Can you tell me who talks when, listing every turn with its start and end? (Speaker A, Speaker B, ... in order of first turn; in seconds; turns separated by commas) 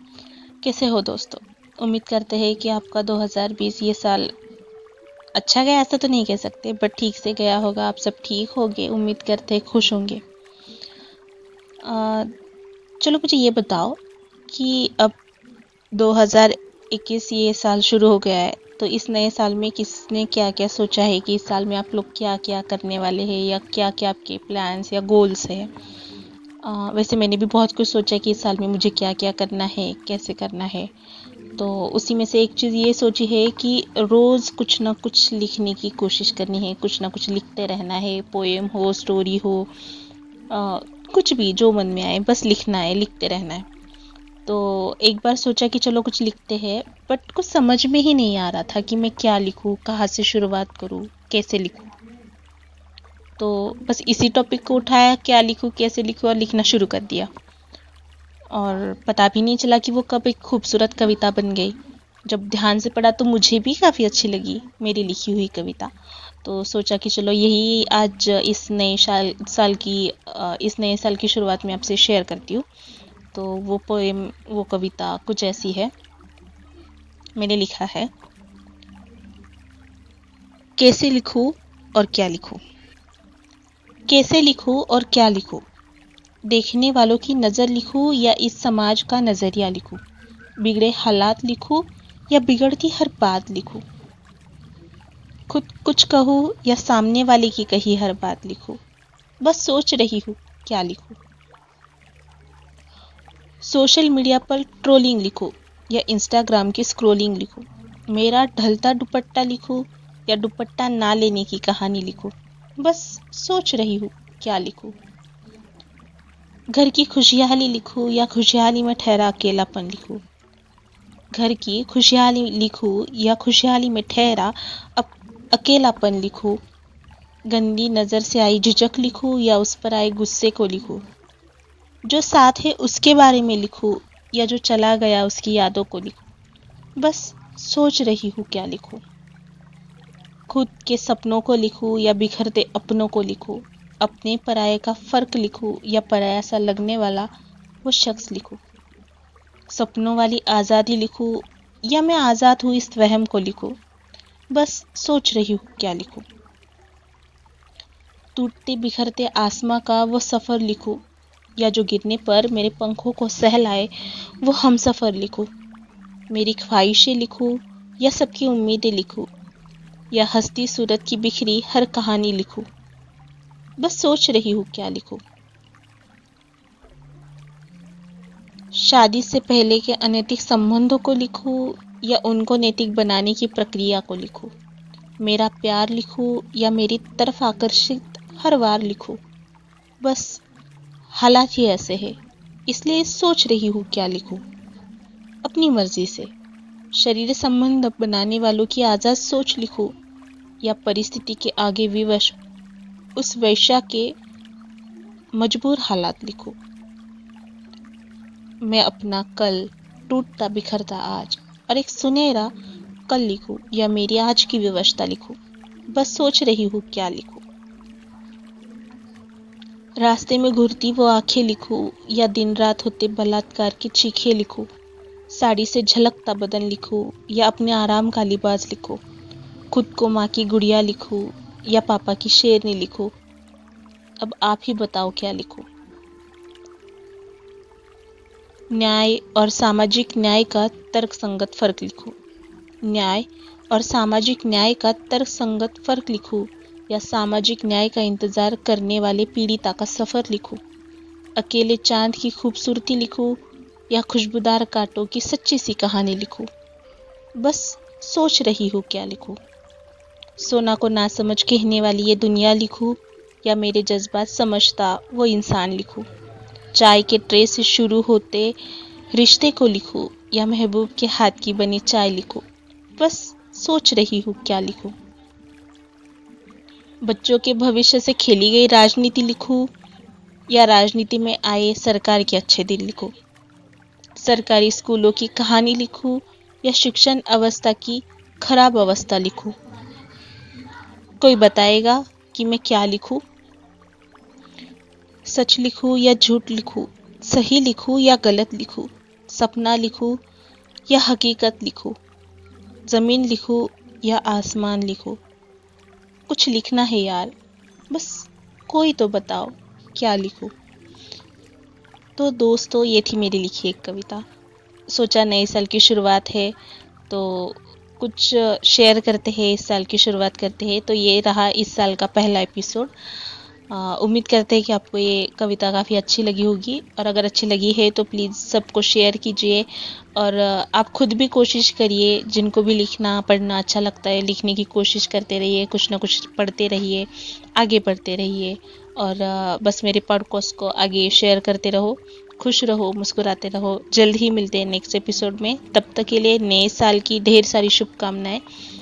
Speaker A: 0.6-4.3, Speaker A: 5.4-10.2, Speaker A: 11.8-12.3, Speaker A: 13.0-15.2, Speaker A: 15.9-25.7, Speaker A: 26.6-30.9, Speaker A: 31.6-39.7, Speaker A: 40.5-43.6, Speaker A: 44.5-51.9, Speaker A: 53.4-57.3, Speaker A: 58.5-61.7, Speaker A: 62.2-65.9, Speaker A: 66.4-72.7, Speaker A: 73.3-75.9, Speaker A: 77.4-78.1, Speaker A: 80.8-82.6, Speaker A: 84.1-85.6, Speaker A: 86.5-90.0, Speaker A: 90.6-93.8, Speaker A: 95.5-98.8, Speaker A: 99.4-101.2, Speaker A: 103.6-114.9, Speaker A: 116.7-120.2, Speaker A: 121.3-126.6, Speaker A: 127.5-131.0, Speaker A: 132.1-136.2, Speaker A: 137.0-139.0, Speaker A: 140.5-147.3, Speaker A: 147.8-148.6, Speaker A: 149.7-153.8, Speaker A: 154.5-156.2, Speaker A: 158.3-161.0, Speaker A: 161.6-163.9, Speaker A: 164.4-165.5, Speaker A: 166.3-169.3, Speaker A: 170.1-172.7, Speaker A: 173.8-175.2, Speaker A: 178.8-184.5, Speaker A: 185.2-189.2, Speaker A: 190.0-190.4, Speaker A: 191.2-192.2, Speaker A: 192.7-194.4, Speaker A: 195.4-196.3, Speaker A: 196.9-199.9, Speaker A: 200.6-202.4, Speaker A: 203.2-204.1, Speaker A: 205.3-206.6, Speaker A: 208.6-212.5, Speaker A: 213.1-215.4, Speaker A: 215.9-217.4, Speaker A: 220.0-224.7, Speaker A: 225.3-229.0, Speaker A: 229.7-233.1, Speaker A: 234.2-235.7, Speaker A: 238.7-242.2, Speaker A: 242.8-250.6, Speaker A: 251.3-256.5, Speaker A: 257.4-259.4, Speaker A: 260.4-266.1, Speaker A: 266.7-268.5, Speaker A: 269.1-272.4, Speaker A: 273.0-274.9, Speaker A: 277.0-279.7, Speaker A: 280.5-283.1, Speaker A: 284.2-289.5, Speaker A: 291.2-293.2, Speaker A: 295.2-300.2, Speaker A: 300.9-301.9, Speaker A: 302.9-305.2, Speaker A: 306.3-307.3, Speaker A: 307.9-310.5, Speaker A: 312.2-314.2, Speaker A: 314.9-316.5, Speaker A: 317.1-322.9, Speaker A: 323.7-348.4